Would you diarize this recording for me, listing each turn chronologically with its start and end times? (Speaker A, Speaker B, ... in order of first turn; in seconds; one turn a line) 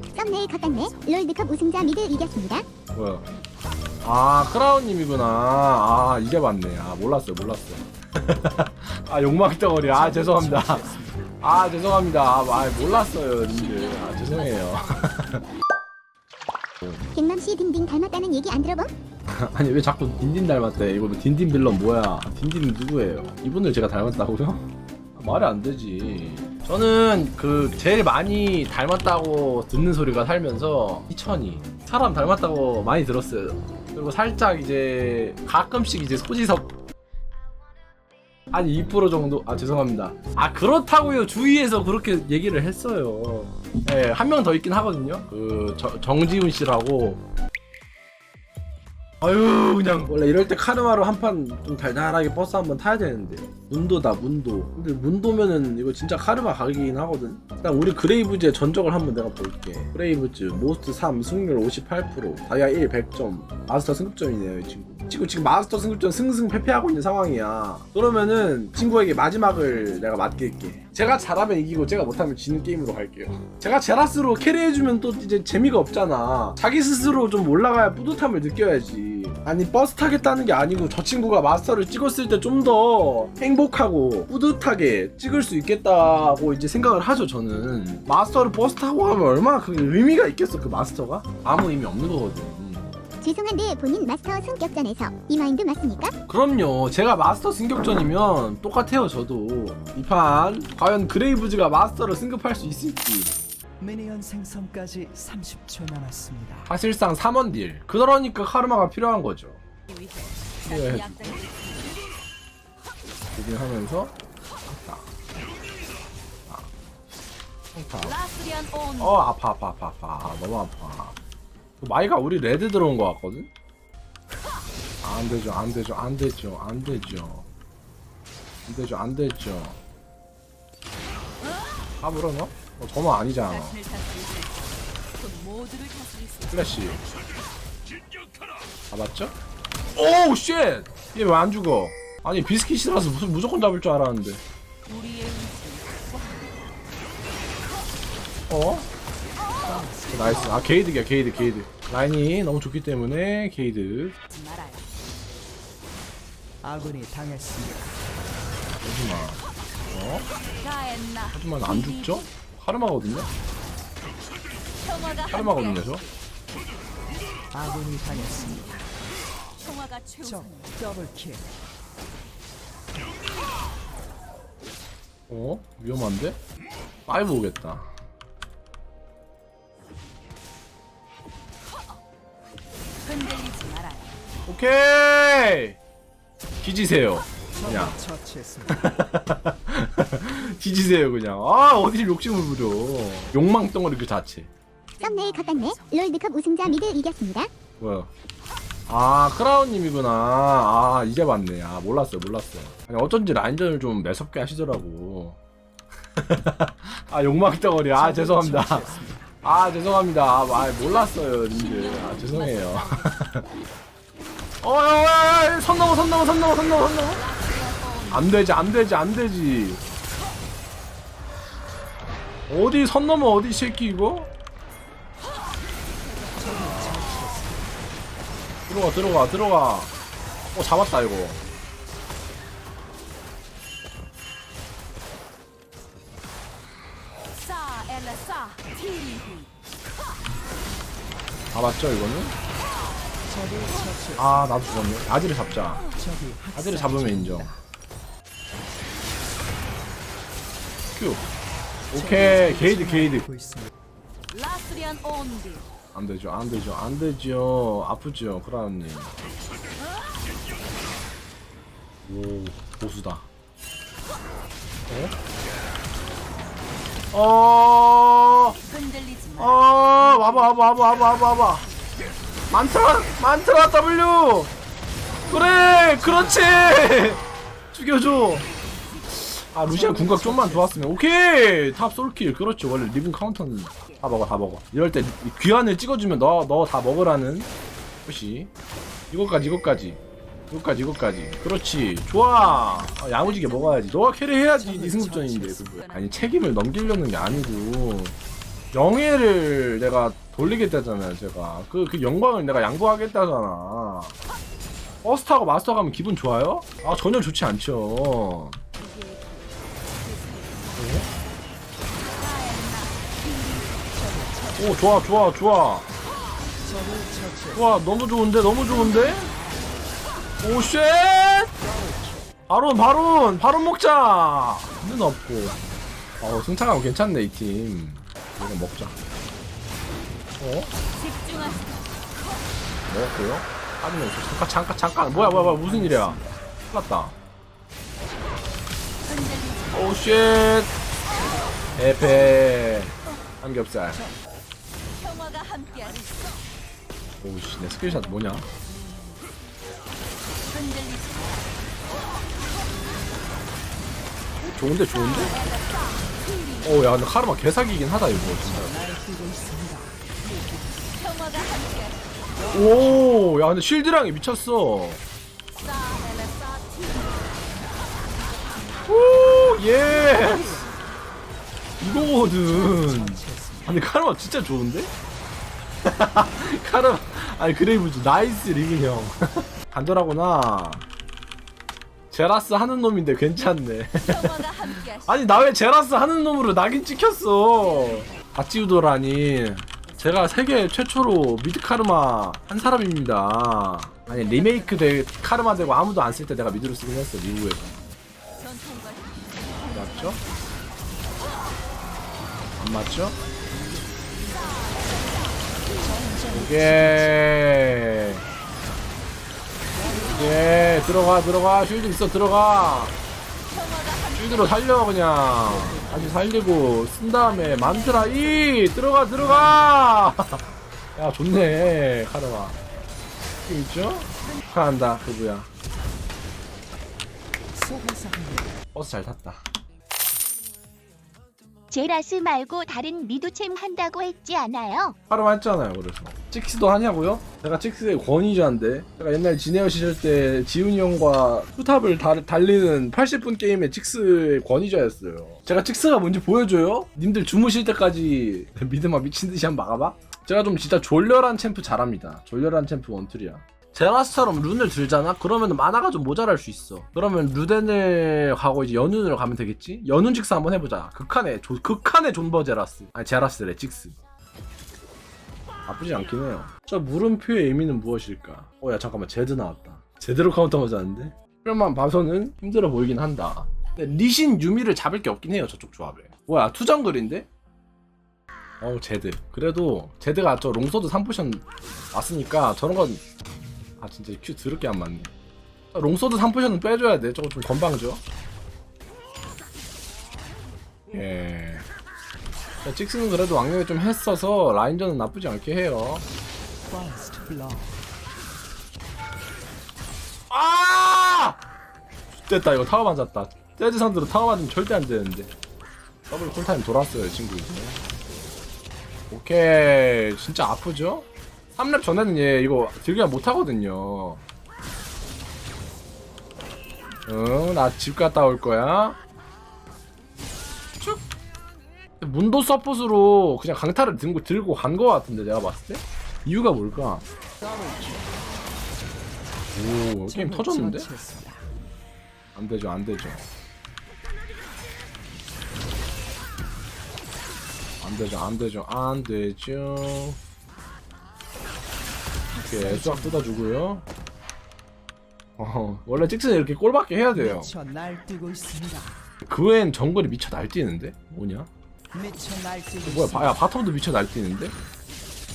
Speaker A: 0.1-1.0
Speaker B: 0.2-2.7
Speaker C: 2.9-3.2
Speaker C: 4.0-15.4
Speaker D: 9.9-11.2
Speaker A: 12.7-15.2
Speaker B: 17.1-18.9
Speaker C: 19.3-36.7
Speaker C: 38.5-47.2
Speaker C: 49.2-92.9
Speaker B: 93.2-96.1
Speaker C: 96.3-103.3
Speaker D: 103.8-106.7
Speaker C: 106.7-109.6
Speaker A: 109.9-112.2
Speaker C: 110.7-111.2
Speaker C: 113.3-114.1
Speaker C: 114.7-115.1
Speaker C: 117.7-118.2
Speaker A: 118.0-119.2
Speaker C: 119.0-121.2
Speaker C: 121.8-123.5
Speaker C: 125.0-127.5
Speaker C: 128.7-129.8
Speaker C: 132.0-133.8
Speaker A: 133.5-136.9
Speaker C: 136.5-137.0
Speaker C: 138.9-139.3
Speaker C: 139.9-144.4
Speaker A: 144.9-146.8
Speaker C: 148.5-148.9
Speaker D: 149.6-150.8
Speaker C: 149.7-154.2
Speaker A: 154.3-154.9
Speaker D: 156.6-158.0
Speaker C: 158.8-159.4
Speaker C: 159.9-160.3
Speaker A: 160.6-162.2
Speaker C: 161.3-163.3
Speaker A: 164.8-166.0
Speaker C: 165.3-166.0
Speaker D: 167.5-168.9
Speaker A: 168.1-168.8
Speaker A: 169.6-170.8
Speaker D: 170.2-171.5
Speaker C: 175.3-176.4
Speaker C: 177.1-177.9
Speaker A: 183.0-184.1
Speaker C: 184.5-185.8
Speaker C: 186.6-188.0
Speaker D: 187.5-189.0
Speaker C: 188.7-194.5
Speaker A: 195.0-196.1
Speaker B: 195.0-197.5
Speaker C: 197.8-198.1
Speaker C: 198.9-205.4
Speaker C: 206.2-213.4
Speaker D: 207.9-209.3
Speaker A: 210.7-213.2
Speaker C: 214.6-217.2
Speaker A: 217.2-218.5
Speaker C: 218.1-219.8
Speaker C: 222.5-224.3
Speaker A: 226.1-227.0
Speaker D: 226.4-227.6
Speaker C: 226.5-227.0
Speaker C: 228.7-229.9
Speaker C: 230.5-231.4
Speaker A: 237.4-239.5
Speaker C: 241.5-242.3
Speaker D: 243.3-244.3
Speaker C: 244.2-245.9
Speaker D: 245.9-247.6
Speaker C: 246.5-247.5
Speaker C: 250.9-251.2
Speaker C: 251.9-253.3
Speaker D: 251.9-253.7
Speaker A: 254.3-255.7
Speaker C: 255.9-259.1
Speaker C: 262.1-263.2
Speaker C: 264.9-265.1
Speaker C: 267.1-268.6
Speaker A: 268.7-272.2
Speaker C: 269.4-271.6
Speaker C: 272.5-274.5
Speaker C: 275.3-278.5
Speaker D: 275.7-276.7
Speaker C: 279.1-287.5
Speaker D: 279.7-280.9
Speaker C: 288.1-288.5
Speaker C: 289.1-298.1
Speaker A: 292.9-294.1
Speaker D: 294.5-295.7
Speaker A: 295.7-296.2
Speaker C: 298.7-304.1
Speaker C: 305.0-308.6
Speaker A: 308.8-311.0
Speaker C: 310.8-311.1
Speaker A: 312.1-313.9
Speaker D: 313.9-315.1
Speaker C: 314.6-315.9
Speaker D: 316.6-317.8
Speaker C: 317.5-319.3
Speaker A: 318.6-319.7
Speaker C: 320.4-321.5
Speaker D: 321.6-322.3
Speaker C: 322.5-325.6
Speaker C: 326.2-328.9
Speaker C: 330.4-330.7
Speaker A: 330.9-331.9
Speaker C: 332.9-336.2
Speaker D: 335.1-336.4
Speaker C: 336.7-337.1
Speaker A: 339.0-340.3
Speaker C: 339.7-340.7
Speaker D: 341.4-342.4
Speaker C: 341.8-344.0
Speaker D: 343.9-344.2
Speaker A: 345.0-346.4
Speaker C: 347.2-348.5
Speaker A: 350.5-351.6
Speaker C: 354.4-355.4
Speaker A: 354.9-357.0
Speaker C: 356.6-358.9
Speaker D: 358.1-360.9
Speaker A: 360.9-362.5
Speaker D: 362.4-363.1
Speaker C: 362.5-365.0
Speaker A: 365.6-367.7
Speaker C: 368.9-370.6
Speaker D: 369.8-370.7
Speaker C: 371.8-374.9
Speaker D: 371.9-373.8
Speaker C: 375.8-380.9
Speaker C: 382.1-397.8
Speaker A: 384.0-385.3
Speaker A: 389.9-390.4
Speaker A: 394.2-395.4
Speaker A: 398.4-400.8
Speaker C: 399.7-400.2
Speaker C: 402.6-403.2
Speaker A: 404.2-405.7
Speaker D: 405.7-407.3
Speaker C: 406.3-408.2
Speaker D: 409.7-410.4
Speaker C: 410.1-412.9
Speaker A: 413.5-414.6
Speaker C: 414.2-420.4
Speaker D: 415.5-416.3
Speaker A: 417.2-418.5
Speaker C: 421.0-422.6
Speaker C: 423.5-425.5
Speaker D: 427.5-428.6
Speaker C: 428.7-429.4
Speaker E: 431.7-434.9
Speaker C: 435.1-464.0
Speaker C: 465.7-477.3
Speaker C: 478.6-483.0
Speaker C: 483.8-485.1
Speaker C: 485.7-488.0
Speaker C: 490.9-491.6
Speaker C: 492.6-496.1
Speaker D: 496.7-497.7
Speaker C: 500.3-501.4
Speaker C: 502.2-505.3
Speaker C: 506.1-507.8
Speaker C: 509.1-514.2
Speaker C: 517.1-519.0
Speaker C: 520.8-521.0
Speaker C: 522.0-527.0
Speaker D: 527.4-528.2
Speaker C: 529.5-530.9
Speaker D: 530.1-531.5
Speaker C: 532.4-533.3
Speaker C: 537.8-540.2
Speaker D: 542.3-543.3
Speaker C: 542.5-543.9
Speaker C: 545.4-547.5
Speaker D: 547.1-549.0
Speaker C: 549.3-551.5
Speaker D: 551.9-553.4
Speaker C: 552.8-554.5